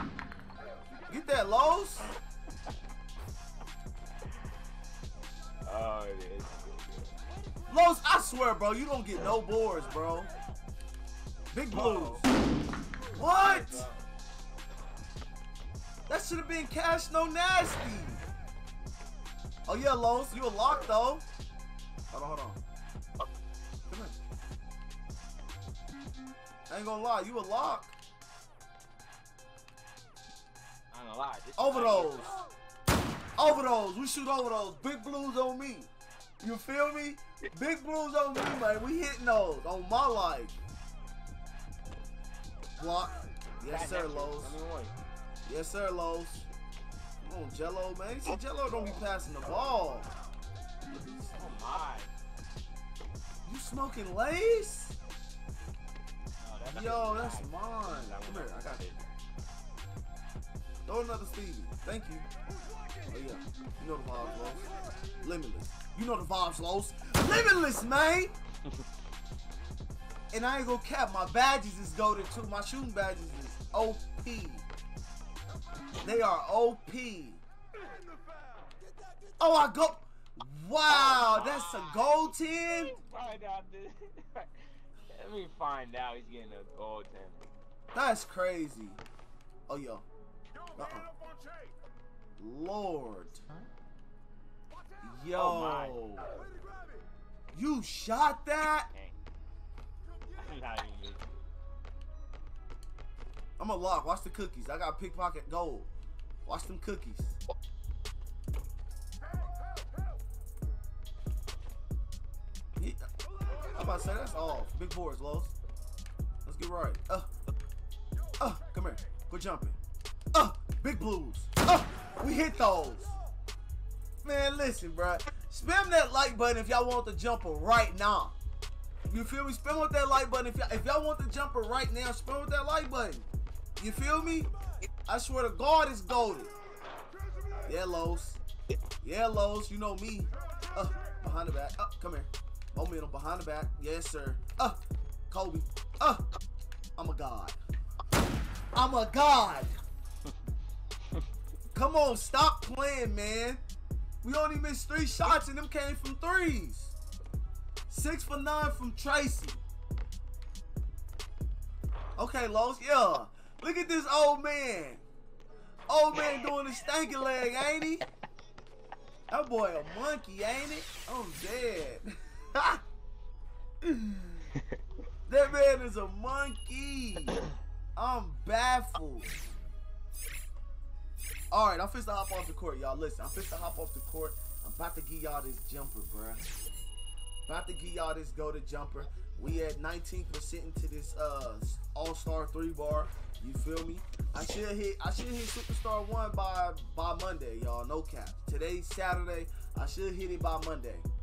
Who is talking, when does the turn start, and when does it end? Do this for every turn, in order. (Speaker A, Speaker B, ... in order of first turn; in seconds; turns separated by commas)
Speaker A: 1.1-2.1, Speaker B: 5.6-7.1, Speaker A: 7.7-10.3, Speaker A: 11.5-12.3, Speaker B: 11.7-12.2, Speaker A: 13.1-13.9, Speaker B: 13.2-14.0, Speaker A: 16.1-18.2, Speaker A: 19.7-21.2, Speaker A: 22.1-22.6, Speaker A: 23.9-24.2, Speaker A: 26.7-27.9, Speaker B: 30.9-32.5, Speaker A: 31.6-32.4, Speaker A: 33.4-40.5, Speaker A: 42.8-44.6, Speaker B: 43.7-44.9, Speaker A: 45.4-46.5, Speaker A: 47.2-50.1, Speaker A: 50.9-51.6, Speaker B: 51.4-52.1, Speaker A: 53.4-55.0, Speaker B: 56.4-59.0, Speaker A: 56.7-58.9, Speaker A: 60.9-62.3, Speaker A: 63.1-68.3, Speaker A: 70.3-74.7, Speaker A: 76.0-77.4, Speaker A: 79.4-83.0, Speaker B: 80.9-84.6, Speaker B: 85.1-87.4, Speaker A: 87.9-89.0, Speaker A: 89.7-90.0, Speaker A: 90.7-91.1, Speaker A: 92.4-93.5, Speaker A: 95.0-96.3, Speaker B: 95.3-96.0, Speaker A: 97.5-98.9, Speaker B: 98.9-99.2, Speaker B: 100.3-101.3, Speaker A: 103.6-105.9, Speaker A: 106.4-107.4, Speaker A: 112.8-115.5, Speaker A: 116.4-117.3, Speaker A: 118.4-119.8, Speaker A: 120.3-123.1, Speaker A: 124.2-128.3, Speaker A: 129.1-133.3, Speaker A: 133.8-134.5, Speaker A: 135.1-136.5, Speaker A: 137.6-138.4, Speaker A: 139.0-146.2, Speaker A: 147.0-147.6, Speaker A: 148.8-149.8, Speaker A: 151.7-153.6, Speaker A: 154.2-157.0, Speaker A: 157.9-159.6, Speaker A: 162.2-165.0, Speaker A: 165.9-168.1, Speaker A: 169.3-172.8, Speaker A: 173.8-174.5, Speaker A: 175.2-177.4, Speaker A: 177.9-179.3, Speaker A: 181.5-186.4, Speaker A: 187.5-201.1